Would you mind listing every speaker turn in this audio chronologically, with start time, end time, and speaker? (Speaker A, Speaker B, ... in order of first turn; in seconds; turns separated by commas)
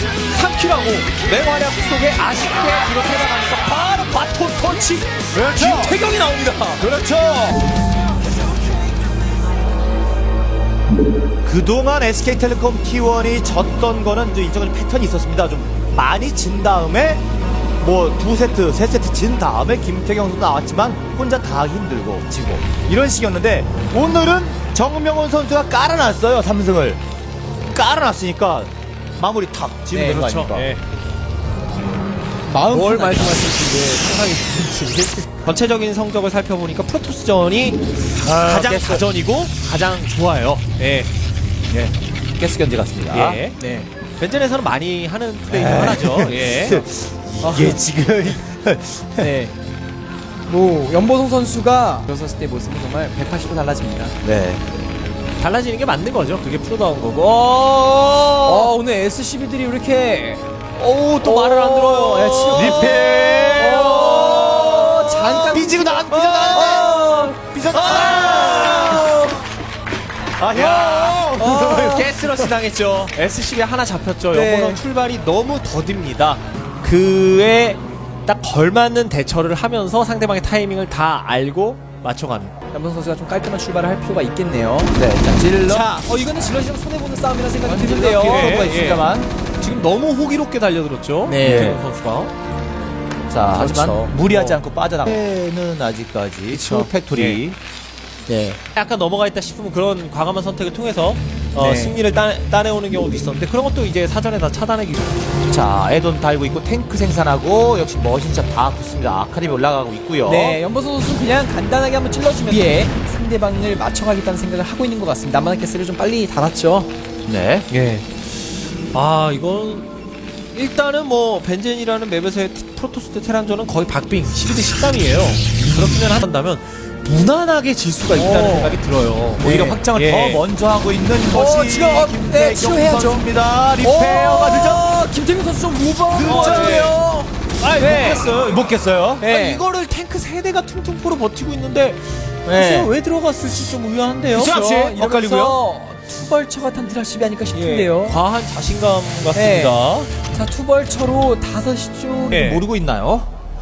Speaker A: 0.3-6.8, Speaker B: 5.3-6.0, Speaker C: 5.6-6.6, Speaker B: 6.8-7.6, Speaker B: 11.4-17.2, Speaker B: 17.8-27.0, Speaker B: 27.7-30.7, Speaker C: 29.9-30.2, Speaker A: 30.0-30.8, Speaker C: 32.5-35.3, Speaker A: 32.7-33.5, Speaker A: 35.4-41.1, Speaker B: 38.2-39.0, Speaker B: 41.7-43.4, Speaker A: 43.1-43.6, Speaker C: 43.6-43.9, Speaker A: 44.2-46.9, Speaker B: 45.5-49.3, Speaker C: 47.4-47.8, Speaker C: 49.2-49.5, Speaker C: 50.5-54.1, Speaker B: 54.2-54.6, Speaker A: 55.4-58.7, Speaker C: 58.5-60.4, Speaker A: 60.8-64.9, Speaker C: 61.2-63.0, Speaker B: 62.5-69.2, Speaker C: 63.5-69.4, Speaker A: 66.1-69.2, Speaker B: 70.4-72.5, Speaker A: 70.5-82.5, Speaker C: 71.5-72.1, Speaker C: 74.3-74.8, Speaker C: 82.7-84.9, Speaker B: 84.9-85.9, Speaker C: 85.7-88.6, Speaker B: 87.6-89.3, Speaker A: 88.2-89.1, Speaker A: 89.6-92.3, Speaker C: 91.2-91.8, Speaker B: 91.4-91.8, Speaker B: 93.3-97.6, Speaker C: 93.6-94.1, Speaker A: 93.6-94.6, Speaker C: 96.5-96.9, Speaker A: 97.1-97.4, Speaker C: 98.3-98.6, Speaker A: 98.7-105.2, Speaker C: 101.5-102.0, Speaker B: 105.5-110.6, Speaker C: 110.2-116.9, Speaker B: 117.2-117.7, Speaker A: 117.7-118.0, Speaker A: 118.9-119.9, Speaker A: 120.5-130.4, Speaker C: 128.2-128.7, Speaker B: 128.2-128.8, Speaker B: 129.4-134.8, Speaker C: 131.3-133.2, Speaker C: 133.8-138.2, Speaker B: 136.1-137.0, Speaker A: 136.2-138.7, Speaker B: 137.8-139.2, Speaker C: 139.2-139.6, Speaker A: 139.2-144.6, Speaker B: 142.4-142.9, Speaker B: 144.3-145.6, Speaker C: 144.3-148.2, Speaker A: 147.5-150.1, Speaker C: 149.3-152.5, Speaker A: 152.3-152.7, Speaker B: 152.3-153.3